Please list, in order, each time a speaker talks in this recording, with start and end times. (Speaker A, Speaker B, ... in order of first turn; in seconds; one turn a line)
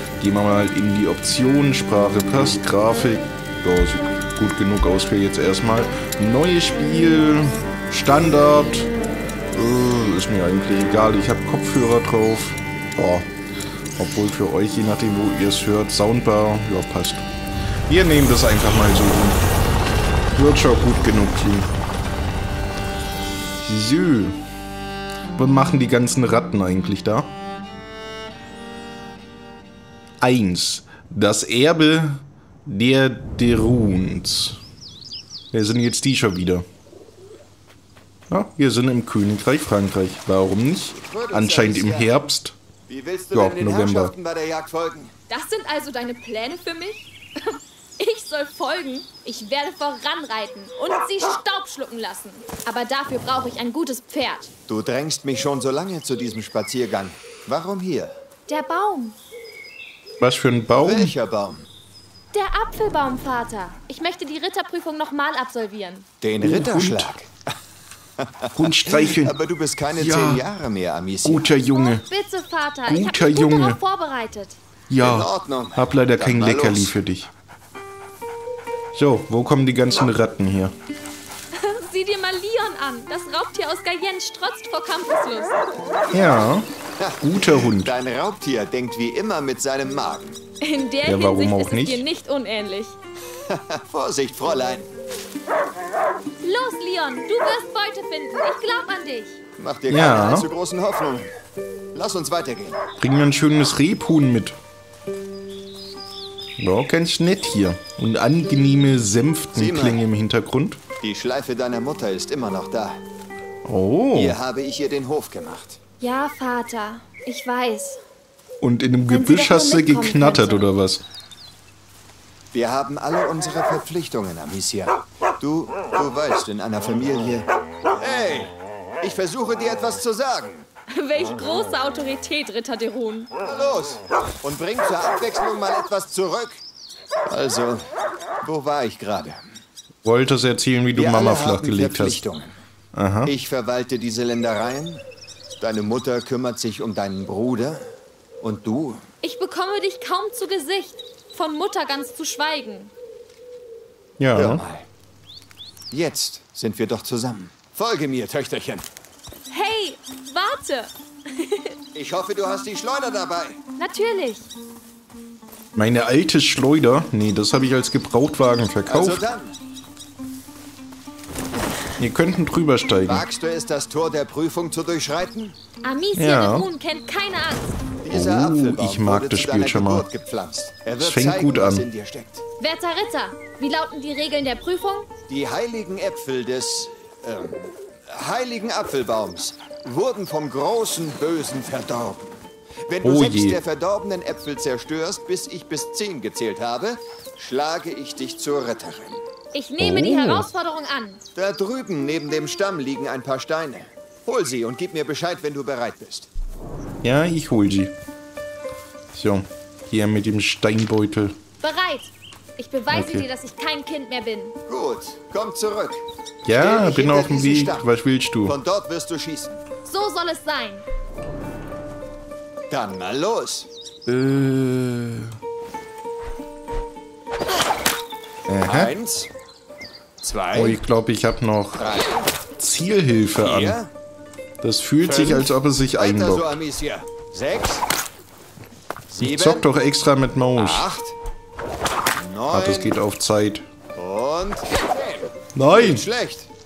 Speaker A: 0.2-8.9
Speaker A: 9.5-13.3
Speaker A: 14.0-17.3
Speaker A: 17.9-19.4
Speaker A: 20.3-21.7
Speaker A: 23.6-24.4
Speaker A: 25.4-27.3
Speaker A: 30.2-34.6
Speaker A: 35.5-36.6
Speaker A: 38.3-42.5
Speaker B: 40.9-42.1
Speaker B: 42.9-45.1
Speaker A: 43.3-44.1
Speaker C: 45.3-54.5
Speaker B: 54.7-58.1
Speaker C: 58.5-59.1
Speaker A: 60.2-61.1
Speaker B: 60.8-61.6
Speaker C: 62.3-66.1
Speaker B: 66.2-67.3
Speaker A: 66.4-67.1
Speaker B: 68.2-71.5
Speaker A: 68.5-69.3
Speaker A: 70.0-70.4
Speaker A: 71.2-72.0
Speaker C: 71.7-74.6
Speaker A: 72.9-73.8
Speaker A: 74.9-77.3
Speaker B: 75.0-77.0
Speaker A: 78.9-80.7
Speaker C: 81.5-85.6
Speaker A: 86.1-86.7
Speaker B: 87.0-90.4
Speaker A: 87.2-87.9
Speaker C: 90.6-93.0
Speaker A: 91.0-92.0
Speaker B: 93.5-94.9
Speaker C: 96.4-99.4
Speaker B: 99.6-101.3
Speaker A: 99.9-100.5
Speaker B: 101.9-102.8
Speaker A: 103.0-104.6
Speaker A: 106.6-110.8
Speaker B: 109.5-110.0
Speaker B: 111.0-113.0
Speaker A: 113.7-114.4
Speaker B: 114.1-115.8
Speaker C: 116.0-118.0
Speaker A: 118.6-121.0
Speaker C: 119.1-120.6
Speaker B: 122.5-127.5
Speaker B: 128.0-130.7
Speaker C: 130.9-133.3
Speaker B: 133.4-136.6
Speaker B: 137.3-137.9
Speaker B: 138.4-139.4
Speaker A: 140.0-142.2
Speaker B: 140.9-142.5
Speaker A: 142.9-143.3
Speaker B: 143.2-145.0
Speaker B: 145.6-147.9
Speaker B: 148.4-149.0
Speaker C: 149.2-152.9
Speaker A: 154.2-154.6
Speaker B: 154.3-154.9
Speaker B: 155.9-158.9
Speaker C: 159.5-161.7
Speaker B: 161.9-163.6
Speaker C: 163.8-164.5
Speaker A: 165.8-169.2
Speaker B: 168.9-169.6
Speaker A: 172.0-173.2
Speaker B: 173.1-175.6
Speaker C: 175.8-177.8
Speaker A: 176.2-176.7
Speaker B: 178.0-182.4
Speaker A: 178.1-180.0
Speaker A: 181.0-181.8
Speaker C: 182.6-185.1
Speaker B: 185.3-199.2
Speaker A: 193.0-193.6
Speaker C: 199.5-201.2
Speaker A: 199.8-200.4
Speaker B: 201.3-206.3
Speaker A: 207.0-207.9
Speaker A: 209.1-211.3
Speaker C: 211.6-214.6
Speaker A: 212.9-213.2
Speaker B: 214.7-216.0
Speaker A: 216.4-218.6
Speaker B: 216.6-217.9
Speaker B: 218.4-219.6
Speaker C: 219.8-220.8
Speaker B: 222.7-223.7
Speaker A: 224.1-225.3
Speaker A: 228.5-228.9
Speaker B: 228.6-229.3
Speaker B: 230.2-230.8
Speaker A: 230.5-231.8
Speaker B: 231.8-232.3
Speaker A: 232.6-233.8
Speaker B: 233.4-233.9
Speaker A: 234.6-236.6
Speaker B: 235.0-237.8
Speaker B: 239.1-239.7
Speaker A: 239.2-240.8
Speaker B: 240.6-241.1
Speaker B: 242.2-242.9
Speaker A: 242.5-243.6
Speaker B: 243.9-246.5
Speaker A: 245.5-246.0